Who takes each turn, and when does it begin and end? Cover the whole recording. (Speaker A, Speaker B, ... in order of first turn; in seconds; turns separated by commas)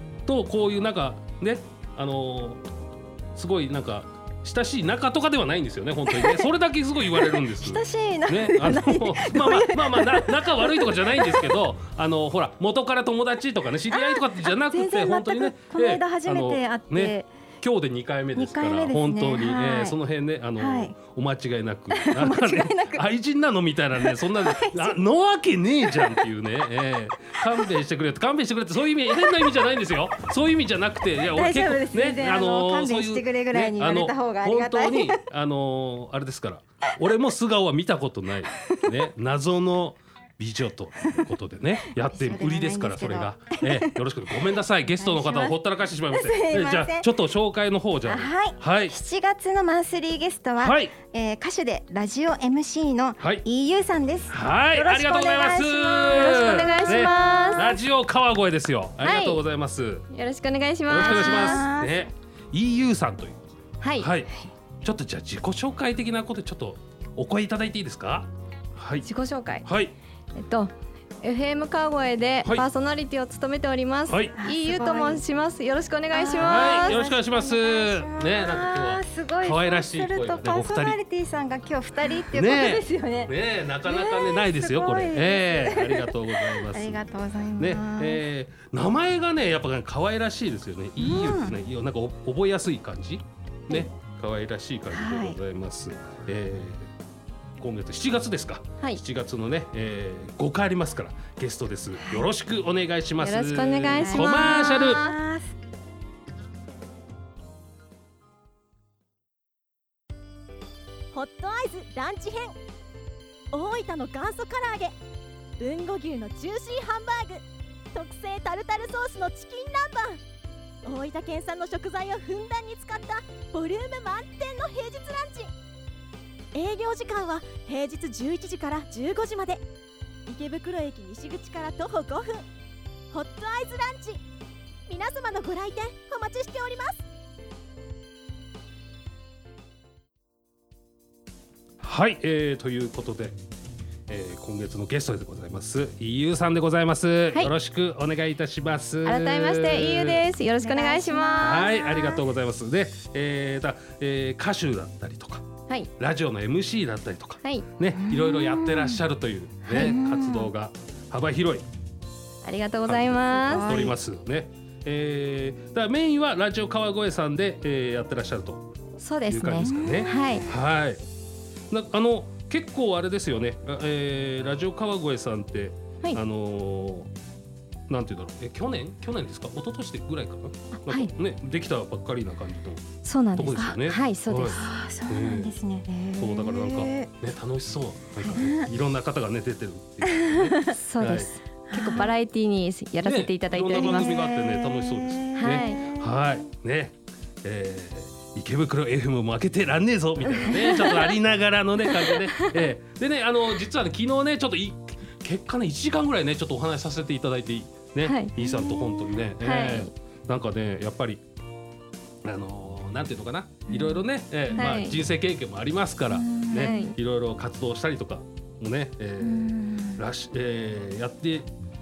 Speaker A: 0.2-2.6, Speaker A: 3.3-49.0, Speaker B: 6.1-6.5, Speaker B: 7.1-11.5, Speaker B: 13.9-17.3, Speaker B: 18.3-20.0, Speaker B: 20.6-20.9, Speaker B: 21.9-23.0, Speaker B: 24.0-25.0, Speaker B: 31.3-35.2, Speaker B: 42.0-44.0, Speaker B: 44.9-45.6, Speaker B: 46.1-47.1, Speaker B: 48.0-55.6, Speaker A: 50.6-50.9, Speaker A: 53.2-53.4, Speaker A: 54.3-60.0, Speaker C: 54.7-57.8, Speaker B: 56.2-57.7, Speaker C: 59.0-59.4, Speaker C: 60.1-61.7, Speaker A: 60.9-63.4, Speaker B: 61.0-62.0, Speaker C: 63.8-64.1, Speaker A: 64.0-69.1, Speaker C: 69.0-69.6, Speaker A: 69.6-69.9, Speaker C: 70.4-70.7, Speaker C: 71.2-77.2, Speaker A: 74.1-74.4, Speaker B: 74.4-75.2, Speaker B: 76.1-88.2, Speaker A: 76.3-81.0, Speaker A: 82.0-87.0, Speaker A: 87.6-96.9, Speaker B: 91.0-91.6, Speaker B: 94.9-95.4, Speaker A: 97.6-105.0, Speaker C: 103.2-105.2, Speaker B: 104.0-105.5, Speaker D: 111.1-112.5, Speaker D: 113.5-114.9, Speaker D: 115.6-120.2, Speaker D: 120.8-125.5, Speaker D: 126.5-129.6, Speaker D: 130.3-132.4, Speaker D: 133.1-134.2, Speaker D: 134.9-137.0, Speaker A: 141.8-143.3, Speaker A: 144.1-150.2, Speaker C: 149.0-151.7, Speaker B: 150.6-152.2, Speaker A: 151.4-155.5, Speaker A: 156.0-161.6, Speaker B: 158.0-159.0, Speaker C: 159.7-160.0, Speaker B: 159.7-160.5, Speaker C: 162.4-163.7, Speaker A: 162.8-168.7, Speaker B: 163.5-163.9, Speaker C: 169.0-170.4, Speaker A: 169.3-171.0, Speaker B: 169.6-170.1, Speaker A: 171.7-177.1, Speaker A: 177.9-185.5, Speaker C: 180.8-181.1, Speaker C: 183.0-184.6, Speaker B: 183.5-183.8, Speaker B: 184.5-187.1, Speaker A: 186.2-191.3, Speaker B: 188.3-188.7, Speaker C: 190.6-194.1, Speaker B: 191.7-192.1, Speaker A: 193.0-211.2, Speaker B: 193.8-196.2, Speaker C: 195.4-195.9, Speaker C: 200.4-200.9, Speaker C: 201.8-202.6, Speaker C: 208.0-208.8, Speaker C: 209.4-209.9, Speaker A: 212.2-221.5, Speaker C: 214.5-215.0, Speaker B: 216.1-216.8, Speaker C: 216.5-216.9, Speaker B: 219.2-220.0